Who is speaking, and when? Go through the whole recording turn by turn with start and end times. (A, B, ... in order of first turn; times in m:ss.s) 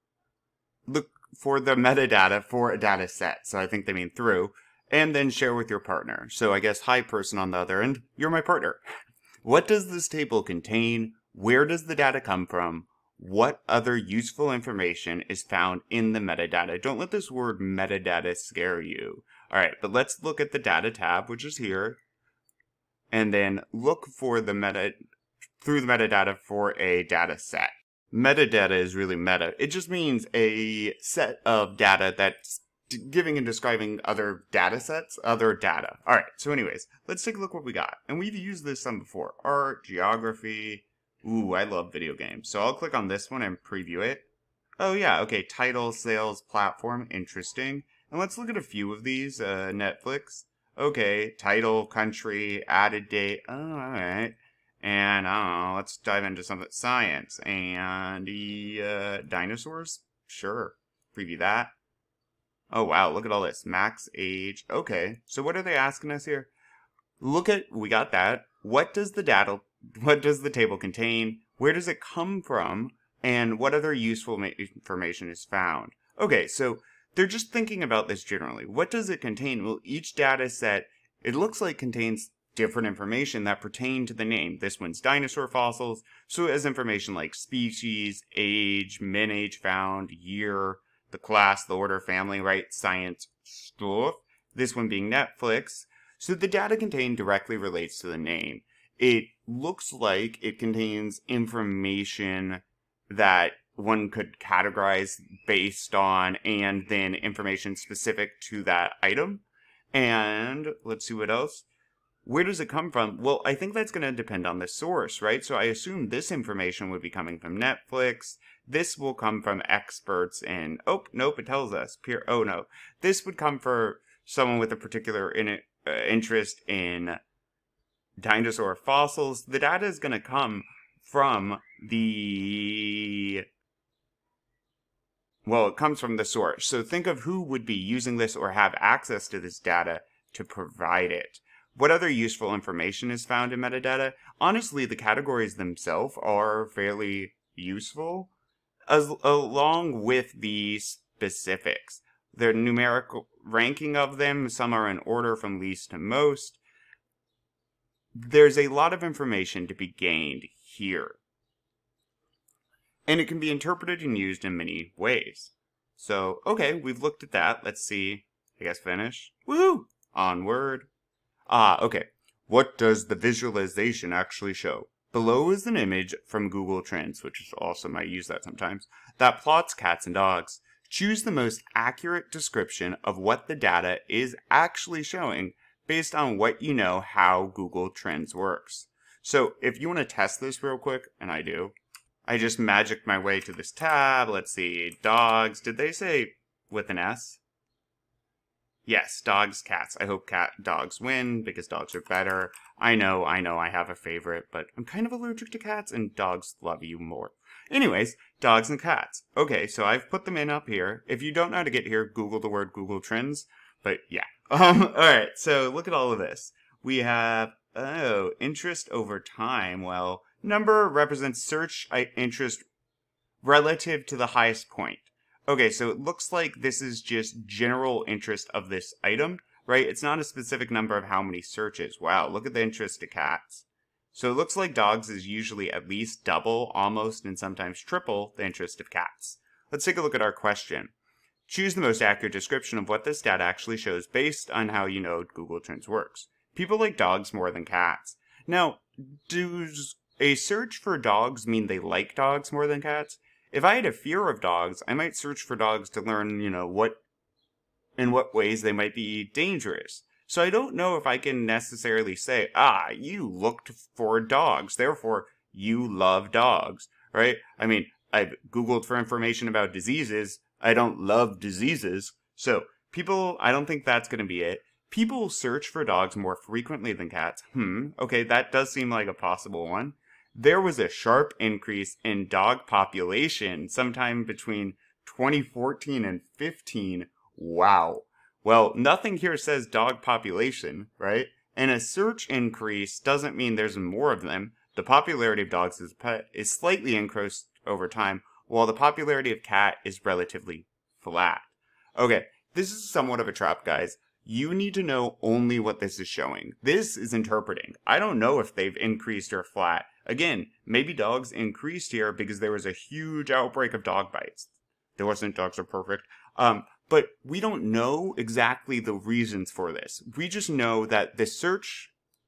0:00.9-0:08.8 A
0:09.4-0:22.0 A
0:23.1-0:25.0 A
0:25.6-0:44.3 A
0:44.8-1:01.7 A
1:02.7-1:06.5 A
1:07.2-1:51.7 A
1:52.2-2:07.2 A
2:08.2-2:13.4 A
2:15.4-2:28.3 A
2:28.9-2:36.6 A
2:38.2-2:41.2 A
2:43.1-2:50.9 A
2:51.5-3:11.7 A
3:12.3-3:17.4 A
3:18.9-3:42.6 A
3:43.4-4:00.9 A
4:01.5-4:17.0 A
4:18.0-5:21.9 A